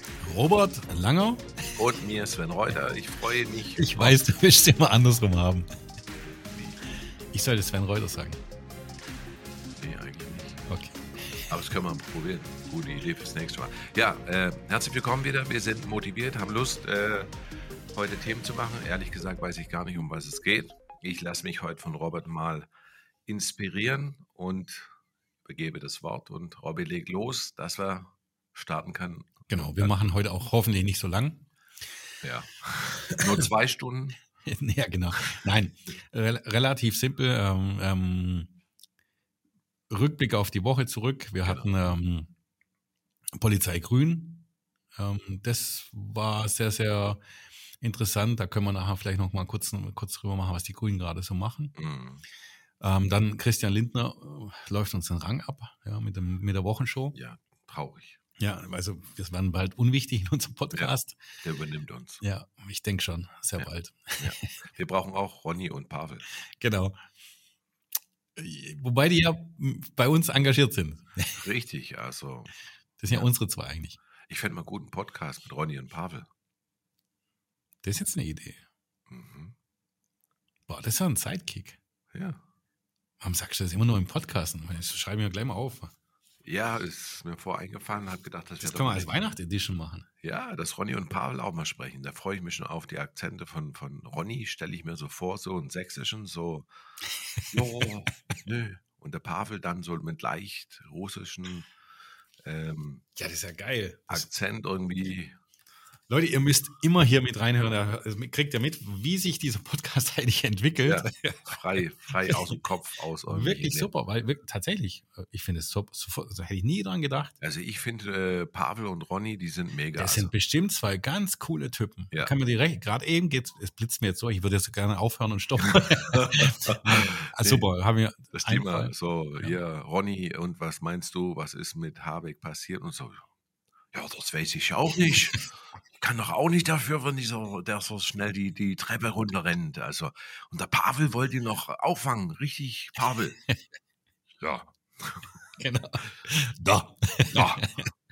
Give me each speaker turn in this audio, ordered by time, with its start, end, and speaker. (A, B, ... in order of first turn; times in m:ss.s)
0:00.2-0:01.5 A
0:01.8-0:04.2 B
0:03.8-0:05.7 A
0:06.5-0:06.8 B
0:07.3-0:08.4 A
0:09.8-0:10.6 B
0:10.7-0:11.4 A
0:11.5-0:17.3 B
0:17.9-0:22.7 B
0:23.3-0:24.9 B
0:25.4-0:30.0 B
0:29.5-0:31.5 A
0:32.2-0:34.2 B
0:34.4-0:38.5 A
0:39.9-0:42.3 A
0:43.4-0:47.2 A
0:47.8-0:51.8 A
0:51.8-0:52.2 B
0:52.8-0:57.2 A
0:57.1-0:58.2 B
0:58.4-1:01.2 A
1:00.8-1:02.2 B
1:02.2-1:04.4 A
1:03.6-1:06.3 B
1:06.6-1:07.0 A
1:08.4-1:11.4 A
1:11.4-1:12.5 B
1:13.0-1:14.0 A
1:14.3-1:16.3 B
1:17.8-1:18.6 A
1:19.1-1:19.6 B
1:20.7-1:21.8 A
1:22.1-1:22.4 B
1:23.2-1:25.9 A
1:26.4-1:29.2 B
1:28.6-1:30.1 A
1:30.2-1:36.7 B
1:37.4-1:37.8 A
1:37.5-1:41.7 B
1:42.4-1:43.1 B
1:43.2-1:44.3 A
1:44.1-1:45.4 B
1:46.1-1:51.5 A
1:50.9-1:53.9 B
1:52.2-1:52.6 A
1:53.3-1:57.3 A
1:57.4-2:00.3 B
2:00.0-2:09.6 A
2:05.7-2:07.6 B
2:08.3-2:13.3 B
2:13.9-2:23.4 B
2:24.4-2:25.4 B
2:25.6-2:27.9 A
2:26.7-2:27.7 B